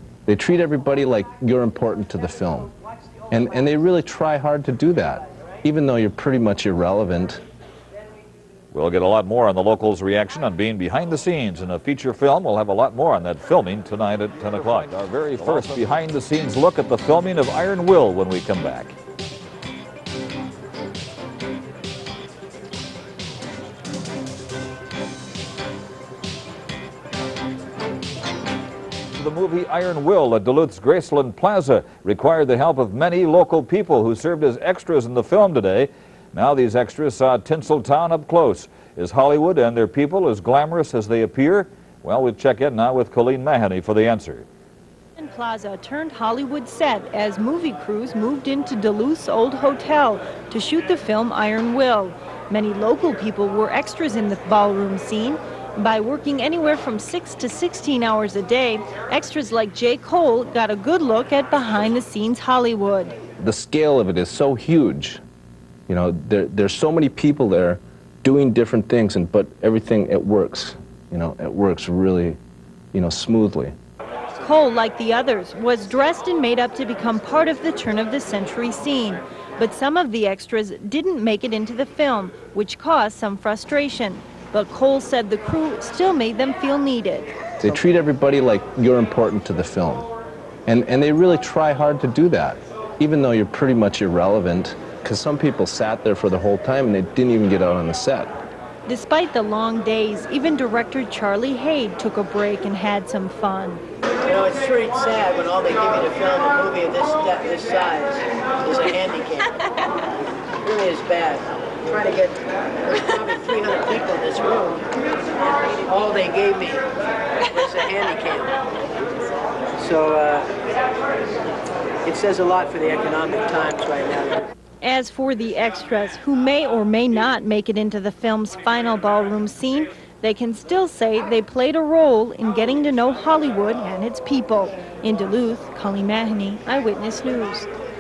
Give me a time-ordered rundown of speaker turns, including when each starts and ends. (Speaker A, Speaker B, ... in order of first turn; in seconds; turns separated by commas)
Speaker A: 0.3-2.7, Speaker A: 3.3-7.4, Speaker B: 8.7-18.9, Speaker B: 29.1-44.5, Speaker C: 45.2-63.1, Speaker A: 63.4-65.2, Speaker A: 65.9-72.4, Speaker A: 72.9-73.8, Speaker C: 74.4-87.3, Speaker A: 87.6-90.1, Speaker A: 90.7-98.4, Speaker C: 98.9-103.8, Speaker D: 104.2-109.5, Speaker D: 110.6-116.9, Speaker D: 117.4-118.5, Speaker D: 119.8-120.5, Speaker D: 122.0-124.5, Speaker C: 124.8-137.7